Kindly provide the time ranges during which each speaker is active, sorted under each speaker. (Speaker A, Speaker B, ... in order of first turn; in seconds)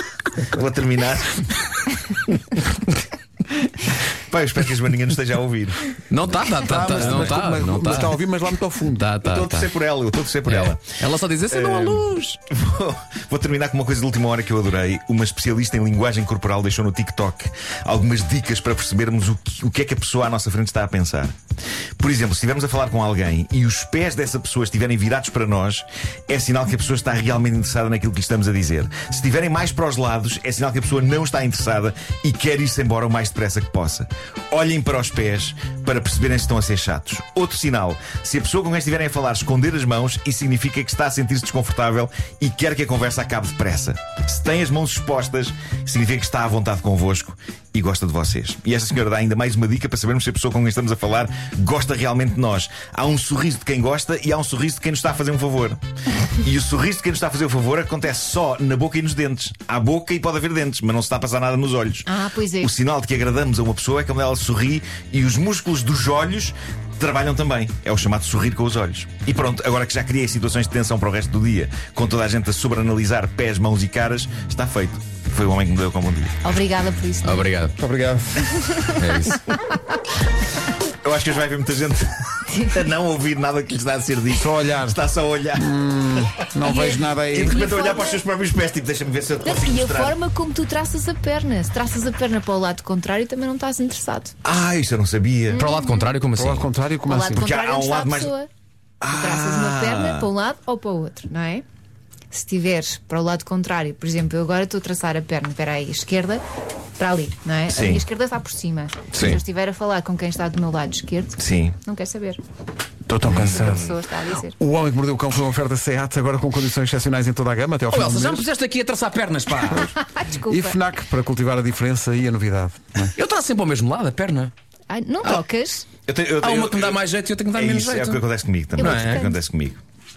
Speaker A: 0.3-2.2, 4.3-5.9, 6.8-7.4, 9.2-11.0, 11.5-21.3, 22.0-55.8, 56.4-62.1, 62.6-76.4, 81.0-86.2, 87.3-90.2, 94.4-95.6, 97.3-98.3, 99.0-100.3, 107.7-108.0, 109.1-109.4, 111.4-111.8, 113.2-113.9, 126.0-129.8
Speaker B: 6.1-8.2, 8.9-9.7, 10.4-12.4, 77.2-77.7, 78.9-79.5, 95.5-96.7, 117.9-119.9, 123.1-124.5, 126.4-128.2, 128.8-129.2
Speaker C: 6.6-9.1, 77.8-78.5, 84.3-85.0, 85.5-87.7, 96.3-97.5, 113.0-113.9, 114.5-118.4, 120.5-123.1
Speaker D: 62.0-62.7, 76.4-77.5, 78.5-79.0, 86.6-88.2, 89.4-94.3, 95.5-96.1, 97.0-98.5, 99.1-101.6, 102.3-106.4, 107.0-112.4, 113.3-114.5, 119.9-120.8, 124.9-125.8, 128.8-129.4